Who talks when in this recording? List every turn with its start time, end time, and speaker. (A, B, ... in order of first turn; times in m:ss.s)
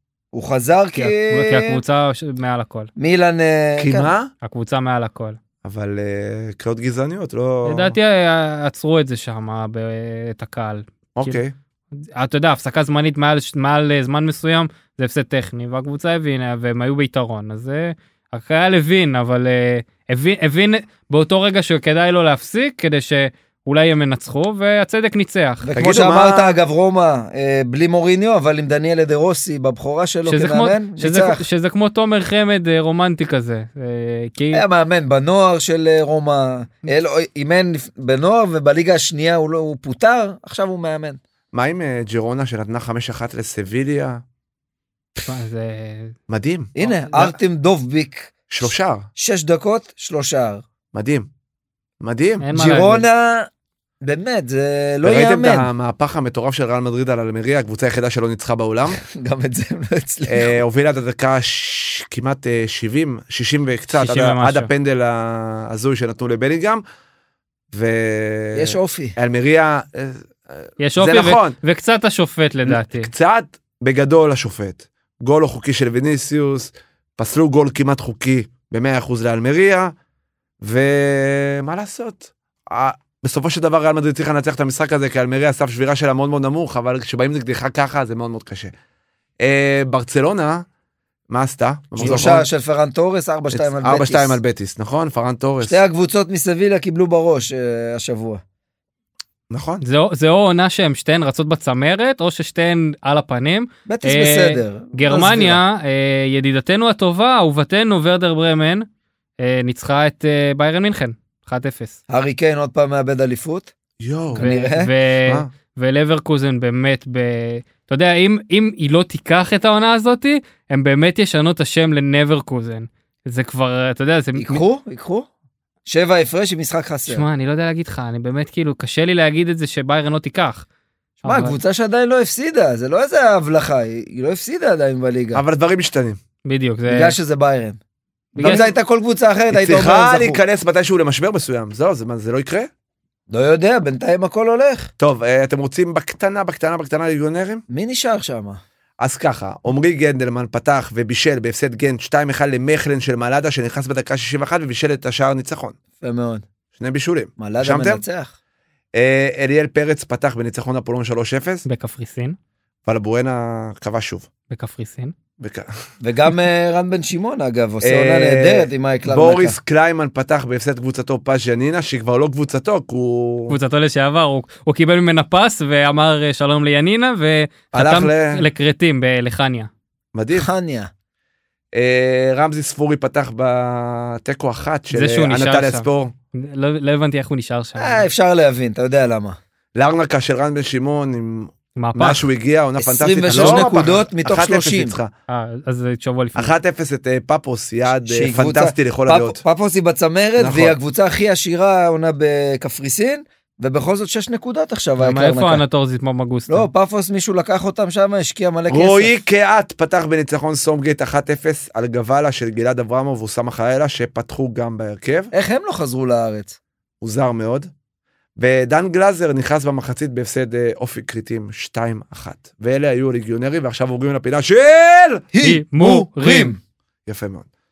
0:00.3-0:01.8 A
0:00.9-0:02.9 B
0:03.0-0:04.1 A
0:03.8-0:04.3 C
0:04.4-0:05.4 B
0:05.6-0:07.9 C
0:07.6-0:11.4 B
0:11.1-0:11.5 C
0:12.0-0:25.7 B
0:25.6-0:31.4 A
0:25.8-0:26.6 C
0:30.2-0:34.6 B
0:34.5-0:41.2 A
0:41.5-0:44.2 C
0:45.2-0:46.1 B
0:46.3-0:47.3 C
0:46.7-0:48.3 A
0:46.8-0:47.3 B
0:48.5-0:49.1 C
0:49.2-0:50.6 A
0:50.9-0:51.3 C
0:52.0-0:52.5 C
0:52.4-0:53.0 B
0:52.5-0:53.5 A
0:54.0-0:55.7 A
0:55.0-0:59.0 C
0:59.0-1:00.6 A
1:00.3-1:06.8 C
1:03.9-1:04.7 B
1:07.7-1:11.6 C
1:08.5-1:09.1 A
1:10.8-1:13.1 B
1:12.6-1:19.9 C
1:20.6-1:28.7 C
1:29.4-1:30.6 C
1:31.3-1:32.5 C
1:32.0-1:34.4 A
1:32.0-1:32.3 B
1:33.5-1:35.8 C
1:35.6-1:38.4 A
1:39.5-1:39.8 C
1:39.8-1:48.8 B
1:43.9-1:45.6 A
1:49.4-1:52.0 B
1:52.1-1:53.7 A
1:54.0-1:54.4 C
1:54.3-1:54.9 A
1:54.4-2:04.6 B
2:04.4-2:05.3 A
2:05.8-2:07.2 A
2:07.1-2:10.6 B
2:11.2-2:11.6 B
2:11.2-2:15.4 A
2:15.3-2:16.2 C
2:16.4-2:17.2 B
2:16.9-2:17.8 A
2:18.3-2:18.7 B
2:18.4-2:20.4 A
2:19.5-2:22.7 C
2:23.3-2:24.9 A
2:25.0-2:27.6 C
2:27.7-2:28.6 A
2:29.0-2:35.8 C
2:36.0-2:36.4 A
2:36.7-2:38.0 C
2:37.4-2:38.3 A
2:38.9-2:41.6 C
2:41.6-2:42.4 B
2:42.8-2:44.3 C
2:44.5-2:45.1 B
2:45.4-2:45.7 C
2:46.0-2:49.5 A
2:47.8-2:53.6 C
2:53.5-2:59.7 B
2:57.7-2:58.4 C
3:00.1-3:00.5 C
3:00.3-3:00.9 A
3:01.7-3:06.1 C
3:04.9-3:08.0 B
3:07.8-3:09.4 A
3:09.7-3:15.1 C
3:11.8-3:12.2 B
3:12.8-3:15.0 A
3:13.3-3:13.6 B
3:15.3-3:16.5 B
3:16.3-3:19.4 C
3:18.0-3:25.6 A
3:20.4-3:20.7 C
3:25.0-3:26.7 B
3:26.5-3:29.2 A
3:28.7-3:35.3 C
3:35.3-3:36.6 A
3:37.0-3:37.7 C
3:38.4-3:45.2 C
3:45.3-3:46.6 A
3:45.4-3:46.6 B
3:47.0-3:47.5 C